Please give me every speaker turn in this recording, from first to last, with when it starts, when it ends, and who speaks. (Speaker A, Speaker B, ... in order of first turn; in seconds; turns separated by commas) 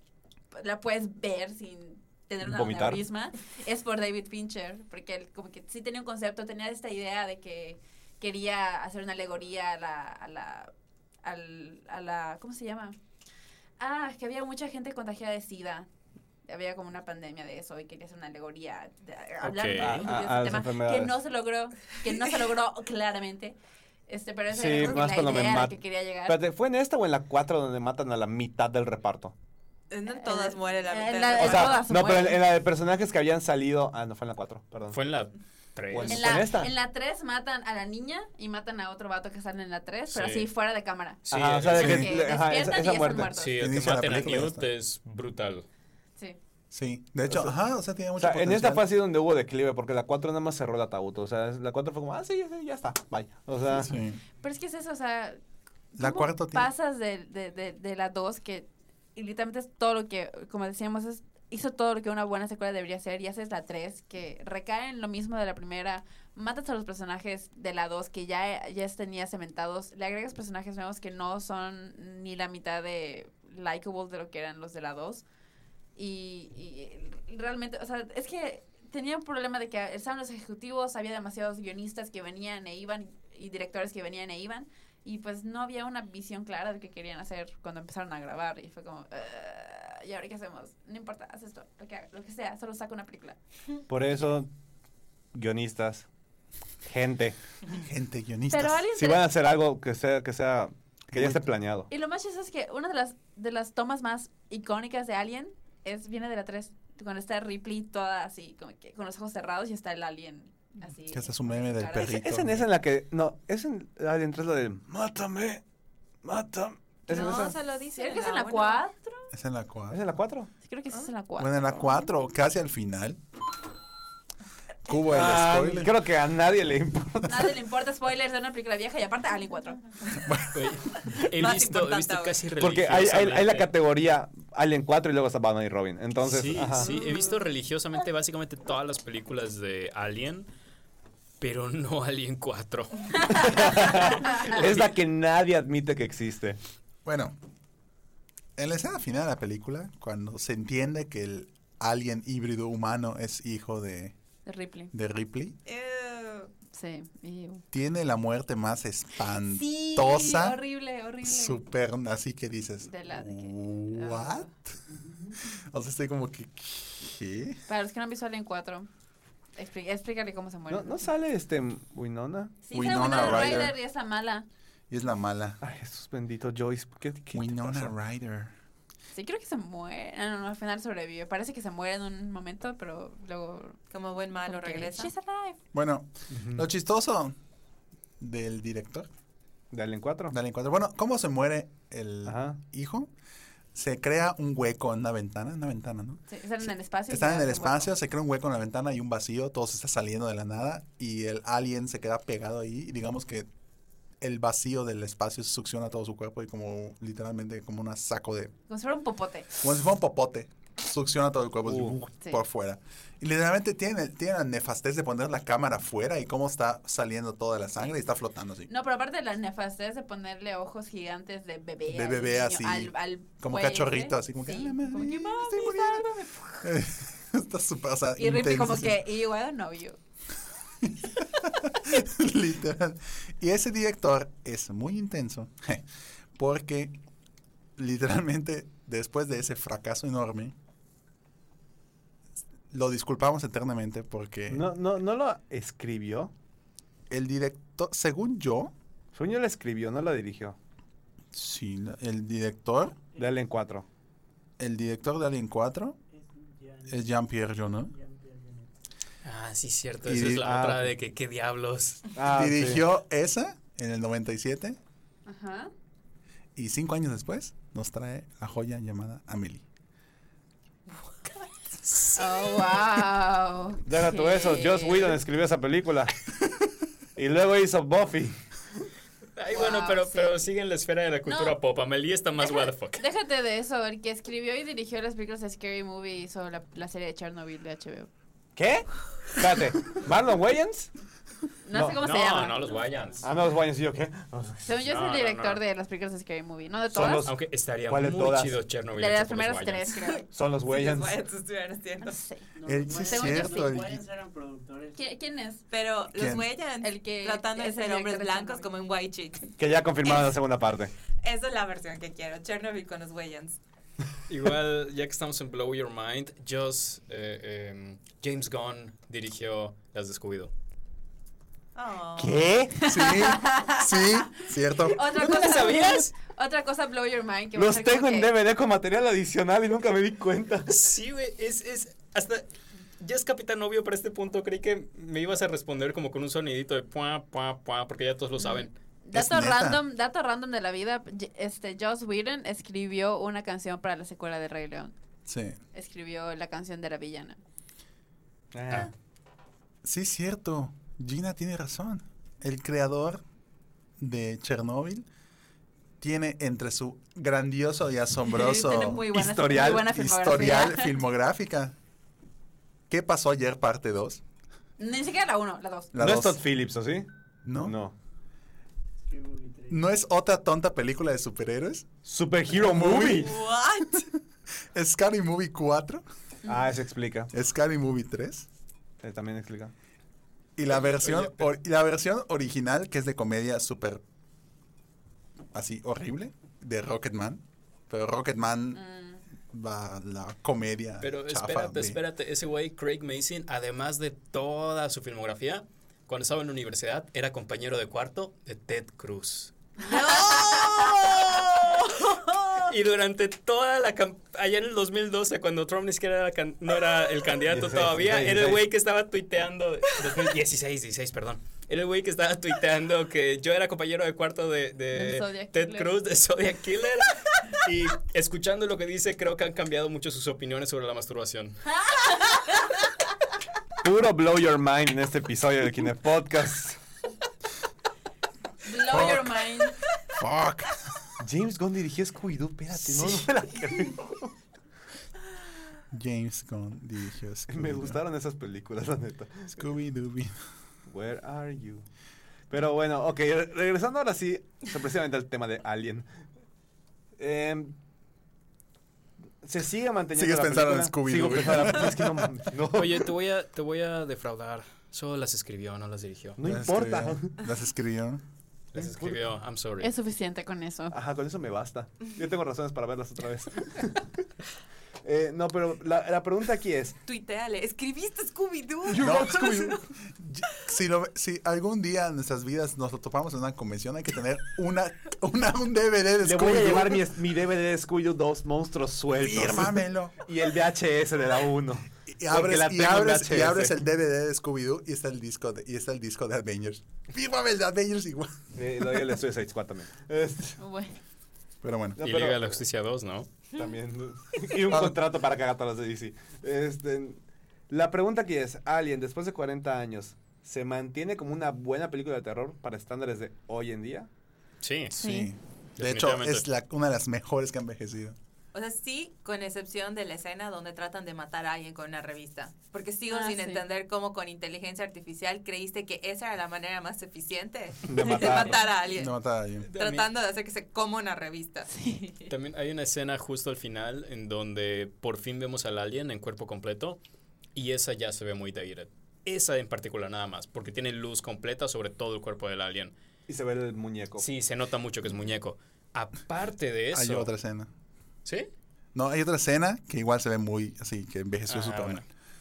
Speaker A: 0.5-10.7, Speaker B: 2.4-3.0, Speaker A: 11.2-12.9, Speaker A: 13.8-15.9, Speaker A: 16.5-26.4, Speaker C: 19.4-20.1, Speaker B: 19.8-21.1, Speaker B: 24.5-29.3, Speaker D: 29.9-31.9, Speaker A: 30.1-32.4, Speaker B: 31.4-35.0, Speaker C: 34.9-36.5, Speaker B: 35.9-36.7, Speaker A: 36.1-43.5, Speaker C: 40.1-40.5, Speaker C: 41.2-42.1, Speaker B: 41.3-43.3, Speaker E: 41.7-42.1, Speaker C: 43.4-45.6, Speaker E: 43.4-44.7, Speaker E: 46.7-48.9, Speaker B: 47.3-47.5, Speaker B: 48.2-53.9, Speaker E: 53.7-54.2, Speaker A: 54.4-55.4, Speaker E: 55.9-56.7, Speaker A: 56.0-75.2, Speaker A: 76.0-93.4, Speaker B: 93.9-94.5, Speaker B: 95.3-96.1, Speaker B: 96.8-97.4, Speaker E: 97.7-98.8, Speaker A: 98.5-99.2, Speaker B: 98.9-101.9, Speaker E: 101.1-101.5, Speaker A: 101.9-112.1, Speaker E: 111.1-112.7, Speaker B: 112.0-115.6, Speaker B: 116.2-117.6, Speaker D: 117.1-118.8, Speaker A: 117.9-119.3, Speaker E: 119.3-120.0, Speaker B: 119.9-120.5, Speaker A: 120.6-122.0, Speaker E: 121.4-123.2, Speaker E: 124.8-125.9, Speaker B: 125.0-127.6, Speaker A: 127.3-130.1, Speaker E: 130.1-130.6, Speaker C: 130.5-133.7, Speaker D: 131.3-132.4, Speaker B: 132.6-137.0, Speaker C: 136.2-140.5, Speaker C: 141.4-144.9, Speaker B: 143.2-146.6, Speaker E: 147.0-147.3, Speaker E: 148.6-154.1, Speaker A: 154.4-154.9, Speaker E: 154.9-155.6, Speaker D: 155.7-156.5, Speaker A: 156.7-157.6, Speaker E: 157.7-160.6, Speaker A: 159.3-161.6, Speaker E: 161.2-164.8, Speaker A: 162.8-164.5, Speaker E: 165.5-167.6, Speaker A: 167.7-168.9, Speaker A: 169.6-171.1, Speaker B: 170.7-173.6, Speaker A: 172.6-174.5, Speaker E: 172.7-173.7, Speaker E: 174.9-175.6, Speaker B: 175.6-177.9, Speaker E: 177.3-178.5, Speaker A: 179.1-183.8, Speaker D: 183.9-185.2, Speaker A: 184.4-185.6, Speaker E: 185.7-187.3, Speaker B: 186.3-186.7, Speaker E: 188.2-189.1, Speaker B: 189.7-190.3, Speaker E: 190.3-193.1, Speaker B: 192.2-192.6, Speaker E: 193.7-196.2, Speaker A: 196.3-197.9, Speaker E: 197.1-203.5, Speaker E: 204.2-208.5, Speaker A: 208.7-209.5, Speaker E: 209.6-218.7, Speaker B: 211.6-211.9, Speaker A: 218.7-226.7, Speaker E: 221.9-226.1, Speaker E: 226.6-229.0, Speaker A: 228.2-230.0, Speaker E: 230.8-235.8, Speaker E: 236.3-236.9, Speaker E: 237.8-240.5, Speaker E: 242.7-244.7, Speaker B: 244.5-246.3, Speaker E: 247.1-248.7, Speaker B: 249.1-250.6, Speaker E: 251.3-253.0, Speaker B: 253.2-253.8, Speaker E: 254.6-256.0, Speaker F: 256.1-258.7, Speaker E: 256.9-257.9, Speaker C: 259.2-262.1, Speaker E: 260.0-260.5, Speaker B: 260.4-260.9, Speaker B: 262.1-262.8, Speaker E: 262.3-264.8, Speaker A: 265.2-265.7, Speaker E: 266.6-269.6, Speaker C: 271.9-272.1, Speaker A: 272.1-275.2, Speaker B: 273.9-276.1, Speaker B: 277.1-278.4, Speaker C: 279.4-283.0, Speaker A: 279.5-280.4, Speaker A: 281.2-281.6, Speaker A: 282.4-288.1, Speaker B: 288.6-290.9, Speaker A: 291.6-292.8, Speaker B: 291.7-292.0, Speaker C: 292.0-293.3, Speaker F: 292.8-293.3, Speaker B: 293.2-294.8, Speaker A: 294.6-297.3, Speaker C: 294.8-295.6, Speaker B: 296.9-298.6, Speaker C: 297.2-299.9, Speaker A: 298.9-300.2, Speaker D: 299.9-302.2, Speaker B: 300.3-301.2, Speaker A: 302.0-303.8, Speaker F: 302.5-305.0, Speaker E: 302.6-304.0, Speaker A: 304.9-305.6, Speaker D: 305.7-309.5, Speaker E: 306.1-306.5, Speaker A: 306.8-308.7, Speaker B: 309.6-310.9, Speaker D: 311.2-313.6, Speaker C: 314.3-320.5, Speaker D: 321.7-322.4, Speaker B: 322.2-322.8, Speaker A: 322.8-328.3, Speaker E: 322.8-325.0, Speaker C: 325.2-326.1, Speaker B: 327.5-330.7, Speaker C: 330.7-332.4, Speaker C: 333.0-338.7, Speaker A: 338.4-344.9, Speaker E: 339.1-339.8, Speaker E: 345.2-345.6, Speaker A: 345.7-347.4, Speaker B: 348.5-348.9, Speaker E: 349.8-353.2, Speaker E: 354.0-355.1, Speaker E: 356.0-361.8, Speaker A: 358.2-360.9, Speaker B: 359.1-359.9, Speaker E: 362.9-364.2, Speaker A: 364.8-365.9, Speaker E: 365.9-366.4, Speaker B: 365.9-367.1, Speaker E: 367.4-367.8, Speaker B: 367.6-367.9, Speaker F: 369.0-369.9, Speaker E: 369.7-371.9, Speaker B: 372.1-373.4, Speaker E: 372.5-373.3, Speaker D: 373.2-374.0, Speaker E: 374.7-376.0, Speaker B: 376.4-377.3, Speaker E: 377.3-378.5, Speaker B: 379.0-379.7, Speaker E: 380.6-384.0, Speaker C: 380.7-381.5, Speaker E: 385.5-388.8, Speaker A: 388.7-389.2, Speaker E: 389.5-392.0, Speaker C: 391.0-402.0, Speaker D: 399.8-401.2, Speaker A: 399.9-400.7, Speaker D: 401.9-402.3, Speaker C: 402.6-421.8, Speaker B: 407.5-408.6, Speaker A: 414.9-415.9, Speaker A: 421.9-422.4, Speaker B: 423.8-426.8, Speaker A: 428.6-429.8, Speaker E: 428.9-429.4, Speaker E: 430.1-431.0, Speaker B: 431.2-434.3, Speaker E: 432.9-433.2, Speaker E: 435.9-438.0, Speaker B: 437.5-439.6, Speaker E: 439.6-440.4, Speaker B: 440.9-441.9, Speaker B: 442.5-446.1, Speaker B: 447.2-447.8, Speaker B: 449.4-453.1, Speaker E: 450.1-452.3, Speaker C: 452.7-456.4, Speaker B: 456.4-457.4, Speaker E: 456.4-458.2, Speaker C: 458.7-459.9, Speaker B: 458.8-459.3, Speaker A: 459.8-460.9, Speaker B: 460.9-464.2, Speaker B: 465.0-467.0, Speaker D: 467.0-469.8, Speaker B: 468.9-469.3, Speaker E: 468.9-477.0, Speaker B: 476.2-483.8, Speaker E: 479.1-480.2, Speaker E: 482.1-489.0, Speaker B: 488.6-490.6, Speaker A: 490.6-490.9, Speaker E: 491.6-492.0, Speaker B: 492.0-492.6, Speaker C: 492.0-493.3, Speaker B: 493.6-504.1, Speaker E: 494.7-495.0, Speaker C: 504.6-505.0, Speaker E: 504.9-508.1, Speaker A: 505.0-505.3, Speaker C: 505.8-506.4, Speaker D: 508.5-519.1, Speaker A: 513.1-513.6, Speaker B: 517.8-518.6, Speaker E: 518.9-519.7, Speaker C: 519.7-520.1, Speaker D: 519.7-521.9, Speaker A: 521.8-522.3, Speaker C: 522.3-527.0, Speaker C: 527.5-532.9, Speaker B: 533.3-534.2, Speaker C: 534.2-537.3, Speaker E: 536.9-537.7, Speaker C: 538.2-538.5, Speaker E: 538.9-542.0, Speaker C: 541.5-542.0